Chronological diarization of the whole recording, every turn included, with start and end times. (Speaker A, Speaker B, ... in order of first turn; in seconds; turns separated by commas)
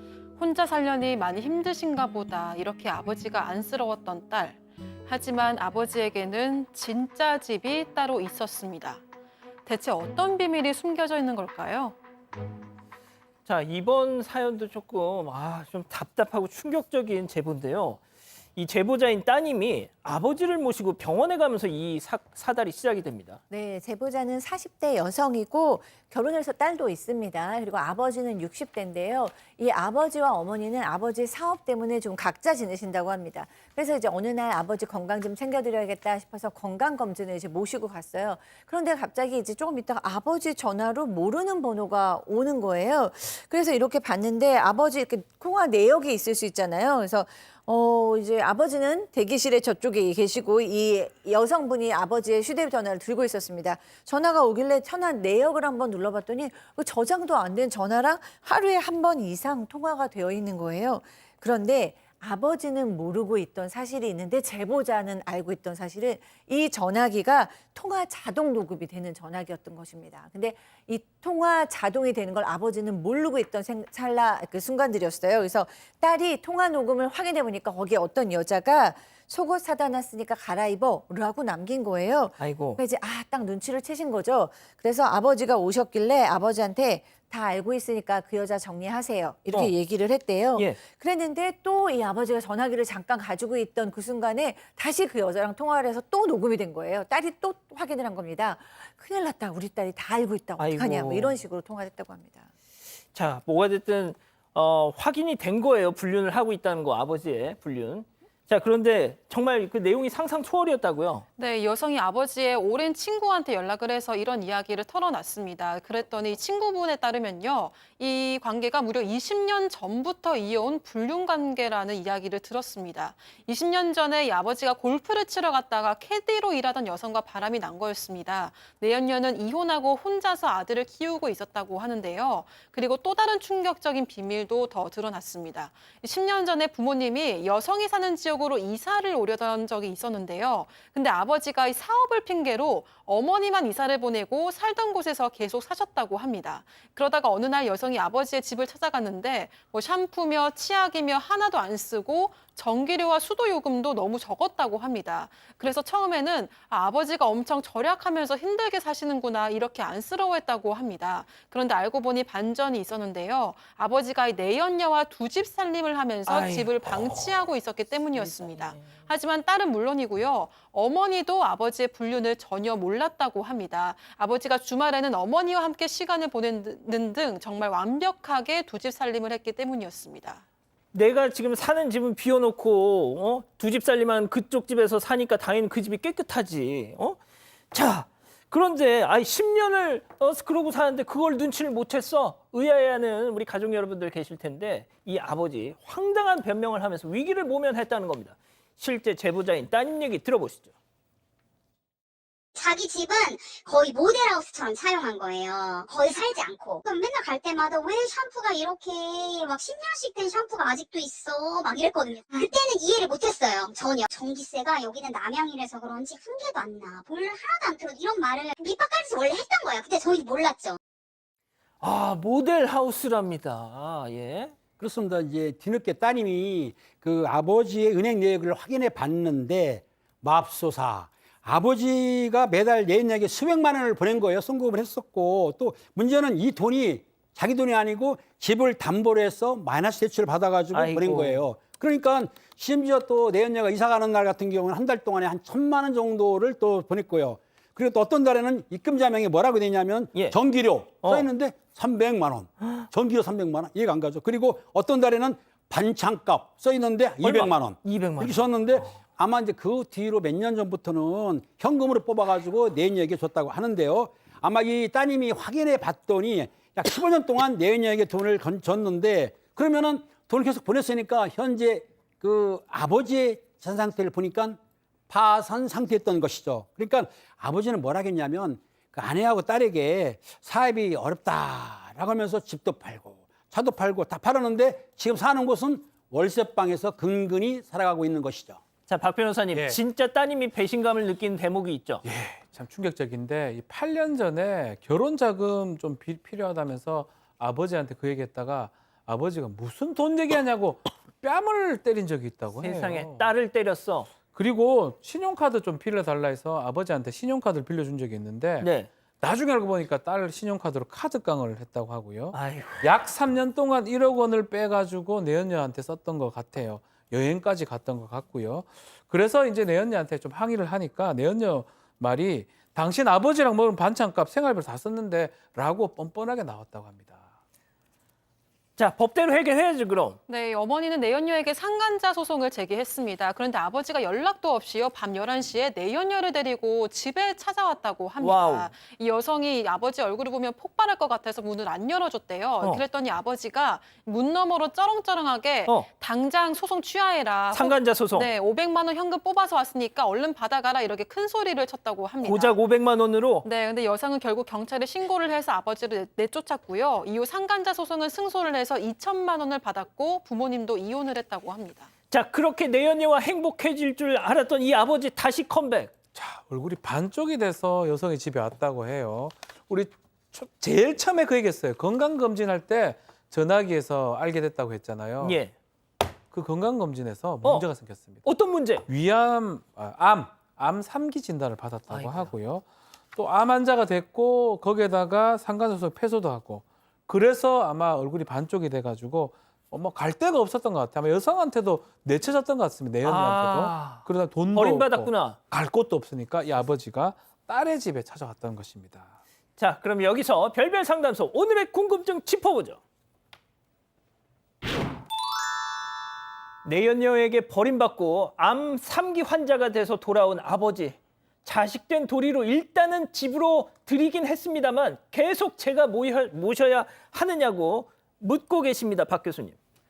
Speaker A: 0.4-9.0, Speaker A: 9.7-11.9, Speaker B: 13.4-18.0, Speaker B: 18.6-23.4, Speaker C: 23.5-102.5, Speaker B: 82.4-82.8, Speaker B: 90.5-90.8, Speaker B: 100.6-101.4, Speaker B: 103.1-111.2, Speaker A: 111.4-180.4, Speaker B: 166.3-167.1, Speaker B: 168.1-168.9, Speaker B: 180.9-187.2, Speaker B: 187.7-200.7, Speaker D: 202.6-220.8, Speaker B: 221.8-224.6, Speaker E: 224.8-274.6, Speaker B: 240.7-241.4, Speaker B: 251.0-251.3, Speaker B: 257.2-258.5, Speaker E: 275.1-288.6, Speaker B: 288.9-292.0, Speaker F: 292.0-303.3, Speaker B: 302.6-304.1, Speaker F: 304.3-327.2, Speaker B: 308.6-308.9, Speaker B: 312.3-312.9, Speaker B: 328.8-330.2, Speaker A: 330.3-352.6, Speaker B: 338.2-338.7, Speaker B: 347.5-348.3, Speaker B: 352.2-353.5, Speaker A: 353.4-361.9, Speaker B: 362.1-365.9, Speaker F: 366.1-375.4, Speaker B: 375.2-375.5, Speaker F: 376.3-378.2, Speaker B: 378.2-378.9, Speaker F: 378.9-399.1, Speaker B: 381.9-382.3, Speaker B: 393.0-395.4, Speaker B: 399.6-402.8, Speaker B: 406.6-419.6